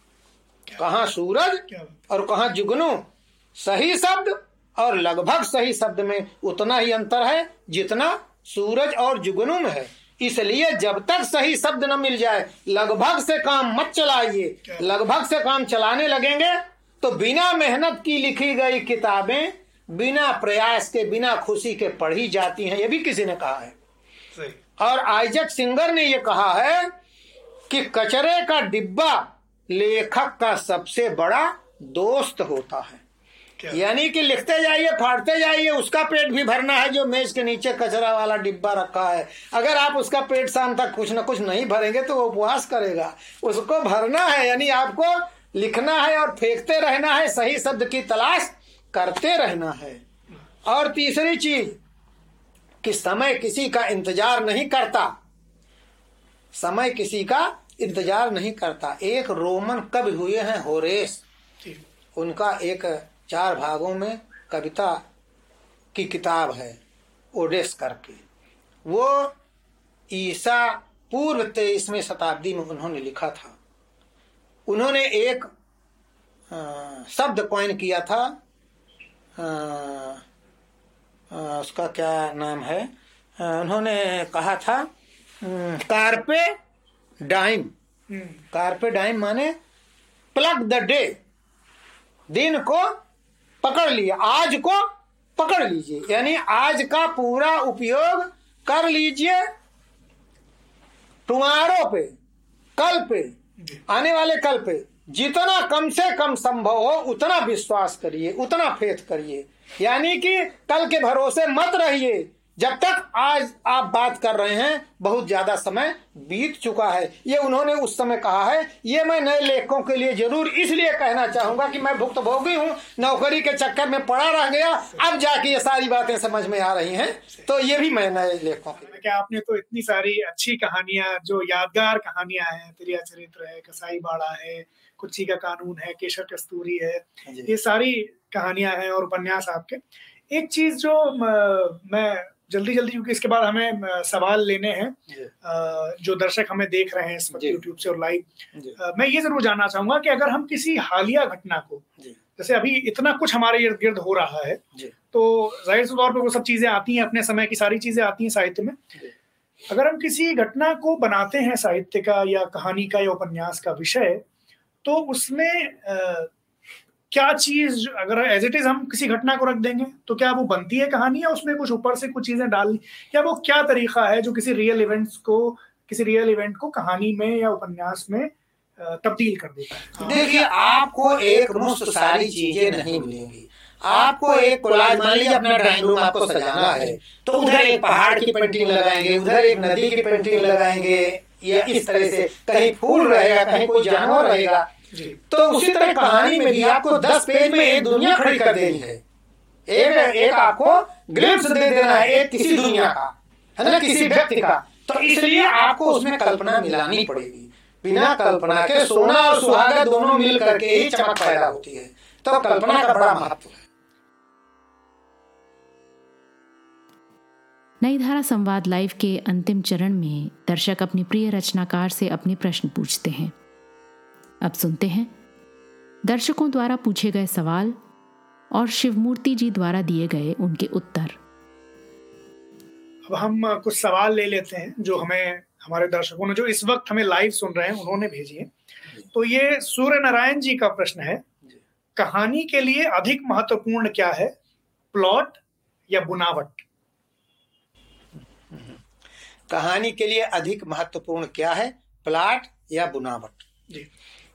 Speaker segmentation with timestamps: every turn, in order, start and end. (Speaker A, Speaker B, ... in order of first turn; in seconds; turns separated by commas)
Speaker A: 0.8-23.7, Speaker A: 24.8-26.9, Speaker A: 27.7-33.0, Speaker A: 33.7-50.0, Speaker A: 50.6-51.8, Speaker A: 52.8-55.1, Speaker A: 56.5-61.2, Speaker A: 62.1-65.0, Speaker A: 65.9-66.8, Speaker A: 67.3-68.2, Speaker A: 68.9-69.3, Speaker A: 70.1-73.5, Speaker A: 74.7-75.5, Speaker A: 76.5-78.4, Speaker A: 79.4-80.2, Speaker A: 81.3-84.9, Speaker A: 85.4-86.5, Speaker A: 87.2-87.7, Speaker B: 88.1-88.4, Speaker A: 88.5-89.5, Speaker A: 90.3-91.2, Speaker A: 92.3-92.9, Speaker A: 93.6-94.8, Speaker A: 95.4-99.4, Speaker A: 101.3-102.1, Speaker A: 102.8-103.3, Speaker A: 103.9-129.0, Speaker B: 128.9-158.8, Speaker A: 137.3-137.5, Speaker B: 159.7-164.2, Speaker B: 164.8-166.3, Speaker B: 167.1-180.3, Speaker A: 180.0-194.7, Speaker B: 194.9-195.2, Speaker A: 195.3-199.0, Speaker A: 199.7-213.7, Speaker C: 217.8-223.3, Speaker C: 224.4-225.1, Speaker C: 226.0-227.8, Speaker C: 228.5-231.2, Speaker B: 233.1-238.5, Speaker B: 239.1-241.2, Speaker B: 242.0-244.3, Speaker B: 244.9-246.6, Speaker A: 248.5-248.8, Speaker A: 249.5-253.4